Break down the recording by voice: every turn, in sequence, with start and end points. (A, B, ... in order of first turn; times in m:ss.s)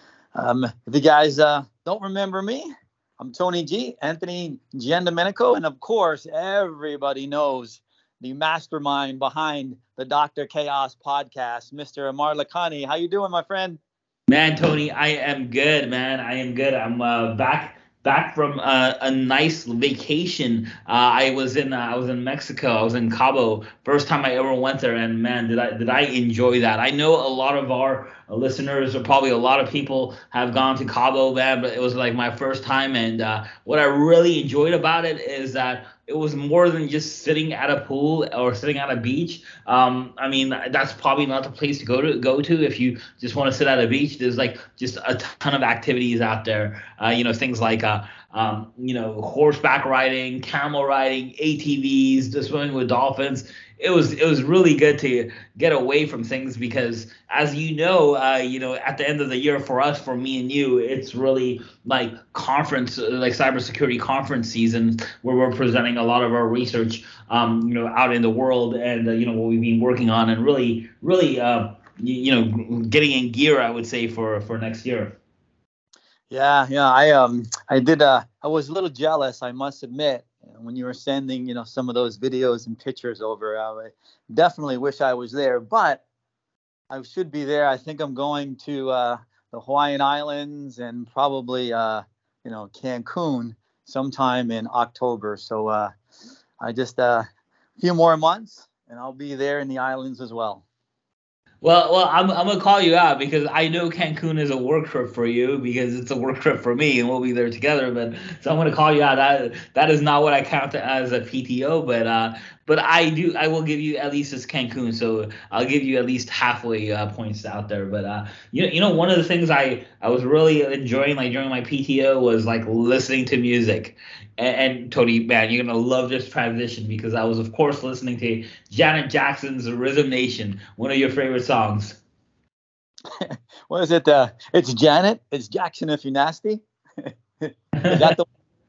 0:00.4-0:02.6 A
0:03.2-0:13.8 A
0:14.3-1:15.1 B
1:16.3-1:26.0 A
1:26.9-1:35.9 A
1:36.6-1:37.2 A
1:37.8-1:40.6 A
1:41.6-2:12.0 B
2:13.2-2:18.2 A
2:17.8-2:18.2 B